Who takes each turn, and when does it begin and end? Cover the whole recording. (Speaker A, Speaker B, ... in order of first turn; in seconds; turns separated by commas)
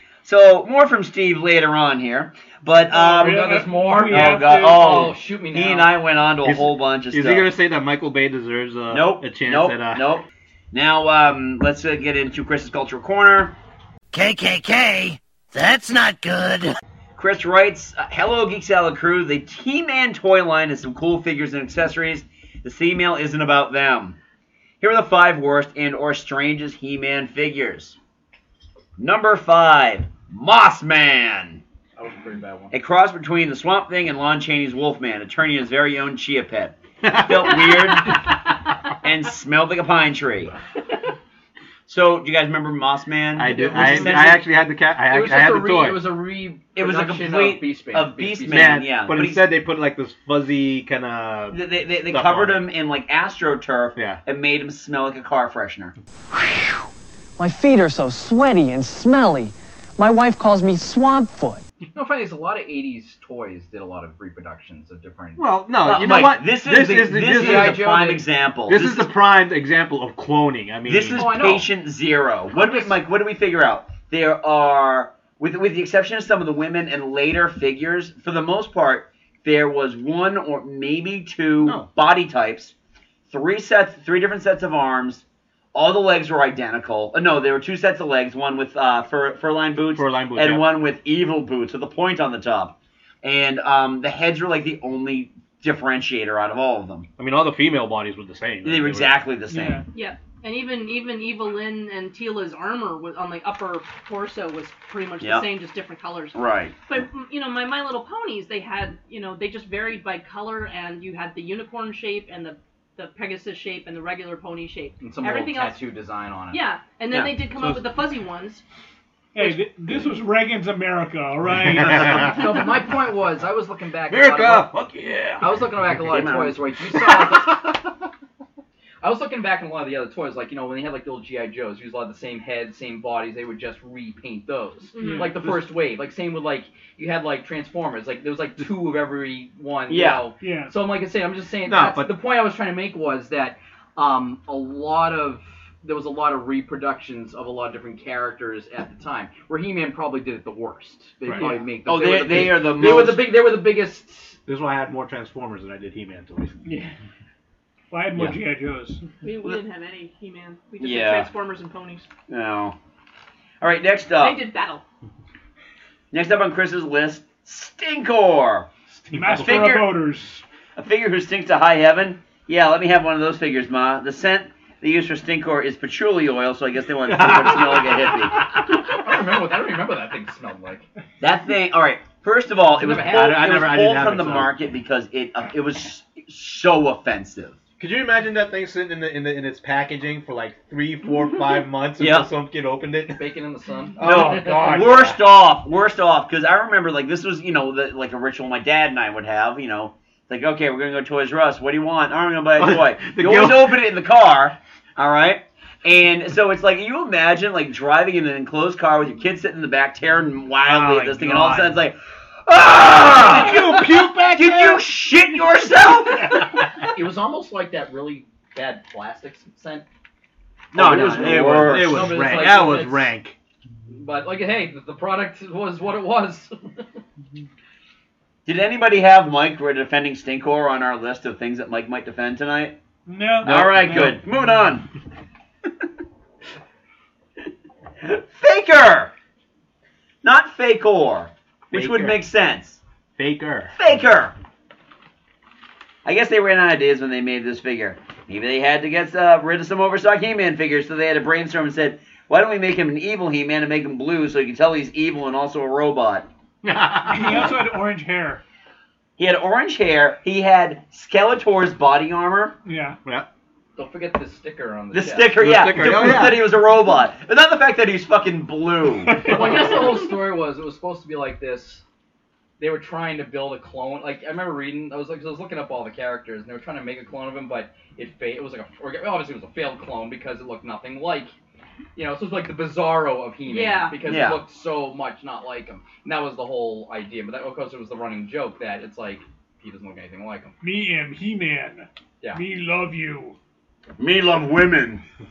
Speaker A: 0.2-3.6, Speaker B: 2.9-5.1, Speaker C: 3.1-5.9, Speaker A: 4.1-7.5, Speaker D: 6.4-10.1, Speaker A: 8.9-13.5, Speaker E: 14.1-16.7, Speaker A: 17.1-24.2, Speaker A: 24.8-28.0, Speaker A: 29.0-31.6, Speaker C: 32.0-32.7, Speaker A: 32.7-38.3, Speaker D: 37.0-38.0, Speaker A: 39.0-40.5, Speaker A: 41.9-44.4, Speaker D: 43.3-46.0, Speaker C: 43.5-44.4, Speaker C: 45.0-48.9, Speaker A: 46.8-49.5, Speaker D: 48.5-52.7, Speaker A: 51.5-55.9, Speaker D: 54.0-54.2, Speaker F: 57.4-61.6, Speaker C: 61.9-65.5, Speaker D: 65.4-67.9, Speaker A: 65.8-69.1, Speaker C: 67.1-68.2, Speaker D: 68.7-71.3, Speaker A: 70.9-82.7, Speaker C: 71.1-71.7, Speaker C: 72.6-72.9, Speaker D: 81.6-81.9, Speaker A: 83.3-97.1, Speaker D: 89.9-90.7, Speaker D: 97.2-99.2, Speaker A: 98.6-99.8, Speaker B: 99.5-99.8, Speaker G: 99.9-115.8, Speaker A: 105.2-105.5, Speaker A: 106.3-106.8, Speaker C: 115.0-116.6, Speaker G: 116.5-118.6, Speaker D: 117.1-117.8, Speaker B: 119.3-122.4, Speaker D: 122.0-122.4, Speaker C: 122.1-124.7, Speaker D: 124.1-126.0, Speaker C: 125.4-127.7, Speaker A: 126.0-126.6, Speaker C: 129.0-154.4, Speaker G: 134.9-135.3, Speaker B: 135.0-135.4, Speaker A: 139.9-140.2, Speaker B: 140.4-140.7, Speaker D: 141.7-142.1, Speaker D: 151.3-151.6, Speaker A: 151.8-153.3, Speaker D: 152.3-153.1, Speaker D: 154.4-156.6, Speaker B: 157.9-159.0, Speaker G: 159.2-162.1, Speaker A: 160.8-161.3, Speaker A: 162.3-162.8, Speaker A: 163.6-164.4, Speaker G: 164.2-164.8, Speaker A: 166.1-168.7, Speaker B: 169.0-170.4, Speaker D: 169.1-169.8, Speaker A: 169.4-169.9, Speaker A: 170.8-178.5, Speaker D: 177.0-178.3, Speaker C: 178.7-180.8, Speaker A: 181.2-187.6, Speaker C: 182.7-183.4, Speaker D: 182.9-184.5, Speaker D: 187.8-193.2, Speaker A: 192.0-192.3, Speaker C: 193.1-194.8, Speaker D: 194.0-195.2, Speaker A: 194.0-216.6, Speaker D: 202.6-203.9, Speaker D: 210.6-211.8, Speaker D: 213.0-214.8, Speaker D: 216.1-216.7, Speaker C: 216.9-219.8, Speaker D: 220.7-223.3, Speaker A: 220.7-222.7, Speaker C: 220.8-223.1, Speaker C: 223.9-226.8, Speaker A: 228.4-232.8, Speaker B: 233.1-234.1, Speaker D: 233.4-234.2, Speaker A: 233.4-234.9, Speaker A: 238.0-239.1, Speaker A: 240.2-242.8, Speaker D: 241.7-242.2, Speaker D: 243.2-243.7, Speaker A: 243.7-244.3, Speaker A: 246.0-256.3, Speaker D: 256.6-257.5, Speaker B: 257.1-258.4, Speaker A: 259.2-262.6, Speaker B: 262.6-263.0, Speaker C: 263.8-265.4, Speaker A: 264.9-269.3, Speaker D: 265.4-266.6, Speaker B: 269.2-270.0, Speaker C: 269.2-271.8, Speaker C: 272.6-281.3, Speaker C: 281.9-290.5, Speaker G: 283.4-284.0, Speaker A: 284.0-284.4, Speaker B: 290.6-293.4, Speaker A: 294.0-295.0